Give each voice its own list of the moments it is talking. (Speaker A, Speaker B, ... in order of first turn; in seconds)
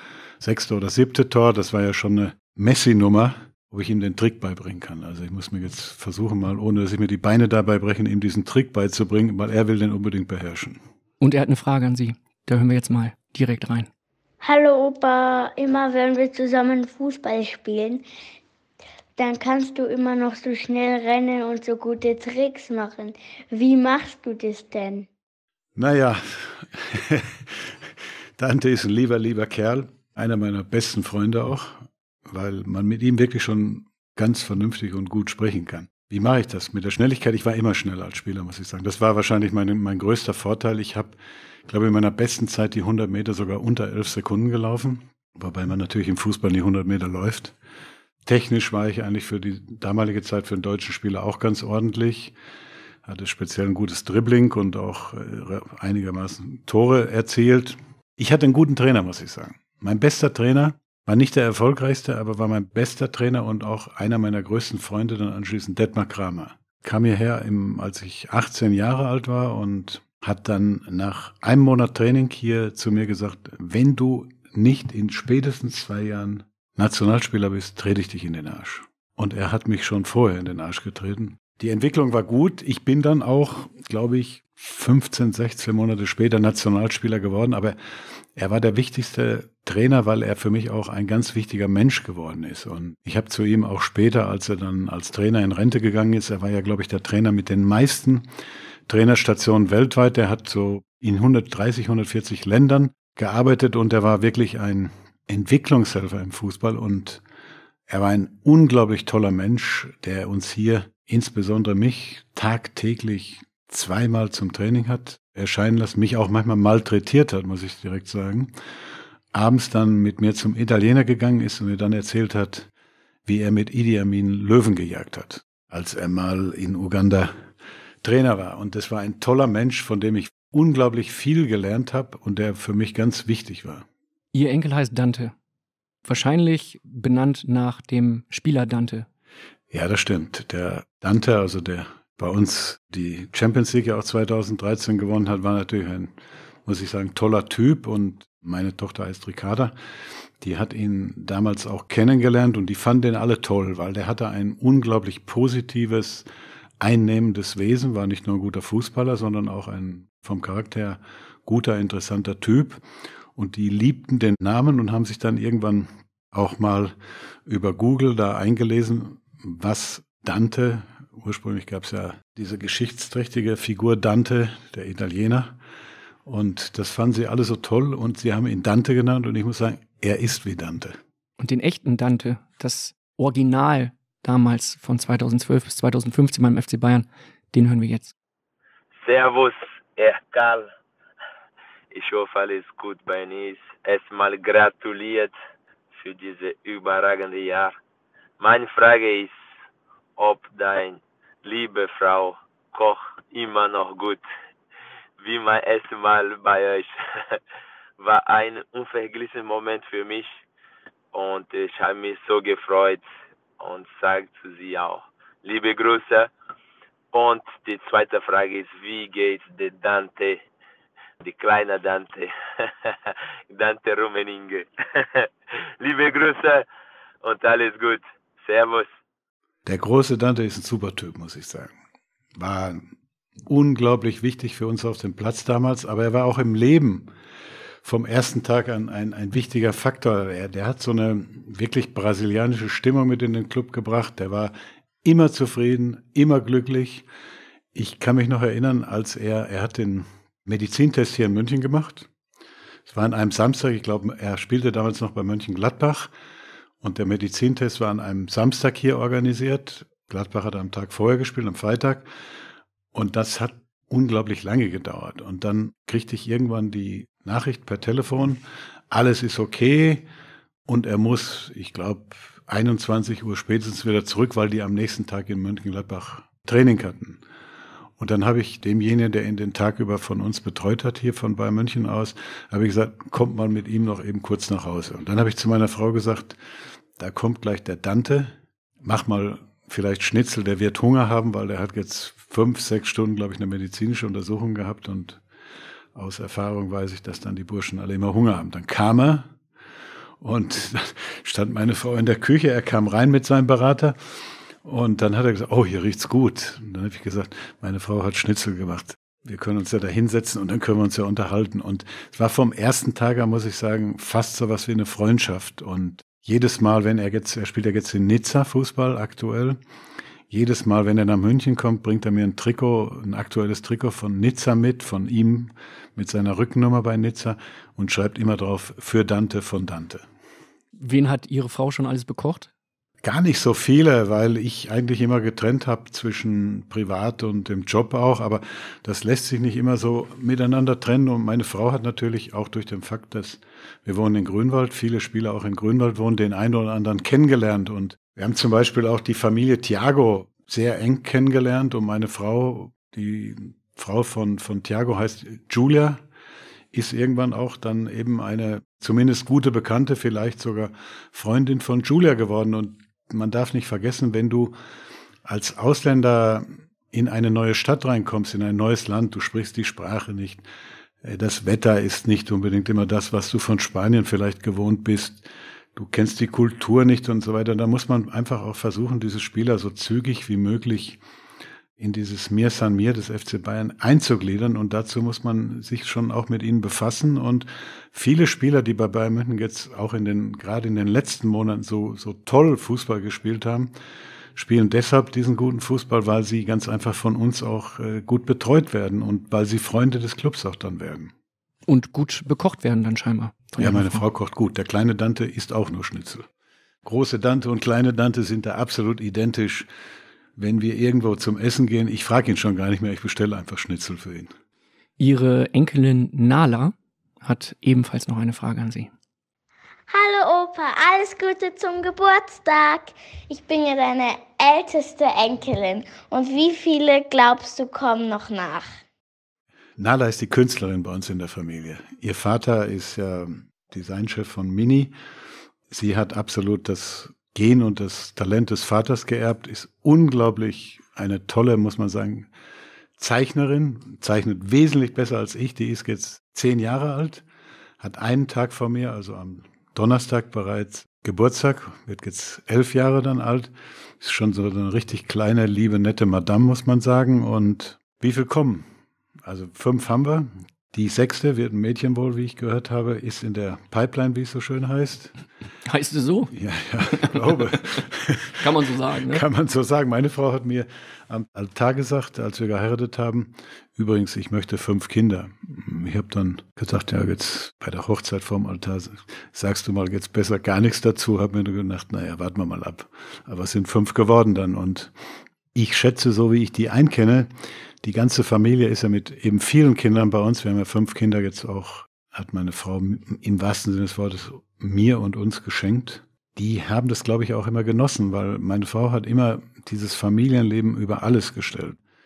Speaker A: 0.4-10.8, 25.8-27.8, 28.4-41.2, 41.7-47.5, 48.3-52.4, 53.0-87.8, 88.3-98.3, 98.9-107.2, 107.9-118.5, 119.3-122.7, 123.3-127.5, 128.0-133.9, 139.7-146.1, 146.7-149.7, 150.4-156.3, 156.8-162.8, 163.4-166.9, 167.5-175.6, 176.2-181.0, 229.7-231.8, 232.4-232.9, 233.5-237.1, 237.8-247.1, 247.7-252.1, 252.9-256.1, 256.8-262.1, 262.9-270.1, 270.7-277.2, 278.0-286.4, 287.0-295.2, 295.9-299.3, 300.2-304.0, 304.6-319.6, 320.3-330.1, 333.0-356.0, 356.7-364.6, 365.2-370.4, 371.0-381.0, 381.8-393.7, 394.4-401.1, 403.6-406.3, 406.9-409.7, 410.4-414.3, 429.8-434.9, 435.7-442.3, 443.0-447.2, 447.8-458.7, 459.2-465.1, 466.3-484.9, 485.5-487.3, 487.8-501.8
Speaker B: 11.2-13.9, 134.3-135.3, 136.1-139.1, 181.4-188.1, 330.8-332.5, 401.7-404.0, 415.0-418.9, 465.6-466.3, 467.0-467.8, 468.4-469.2
Speaker C: 14.4-18.0, 19.2-25.1, 419.9-428.8
Speaker D: 189.0-190.7, 191.9-195.3, 196.0-197.8, 198.4-199.3, 200.2-204.2, 205.2-207.4, 208.0-210.4, 211.1-213.1, 213.6-216.3, 217.1-220.4, 221.2-225.3, 225.8-226.7, 227.2-228.9